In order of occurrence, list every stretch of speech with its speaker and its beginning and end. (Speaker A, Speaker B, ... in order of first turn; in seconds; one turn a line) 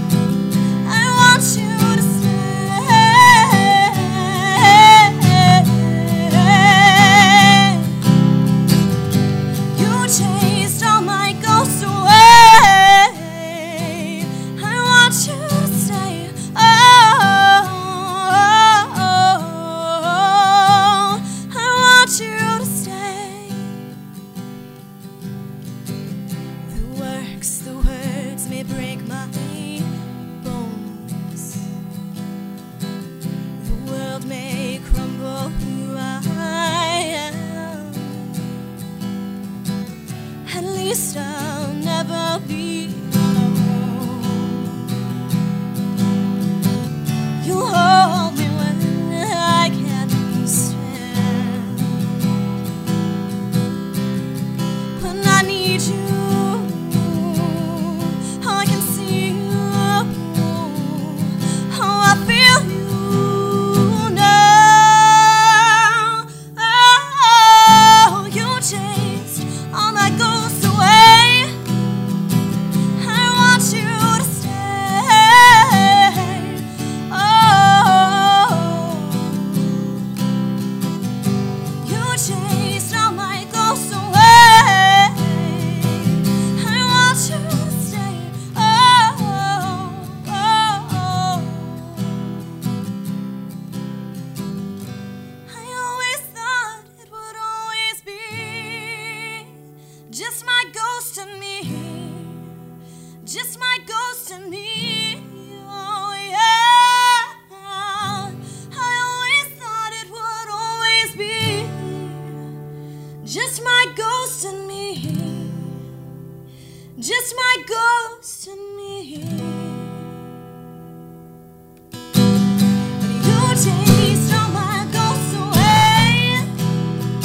Speaker A: 0.8-8.0
Speaker A: 9.7-23.8
Speaker A: 26.7-31.7
Speaker A: 33.6-38.6
Speaker A: 40.4-44.8
Speaker A: 47.4-52.2
Speaker A: 54.9-71.6
Speaker A: 72.9-80.1
Speaker A: 81.8-92.6
Speaker A: 95.5-99.5
Speaker A: 100.1-102.5
Speaker A: 103.2-112.5
Speaker A: 113.2-115.8
Speaker A: 117.0-120.2
Speaker A: 123.0-126.6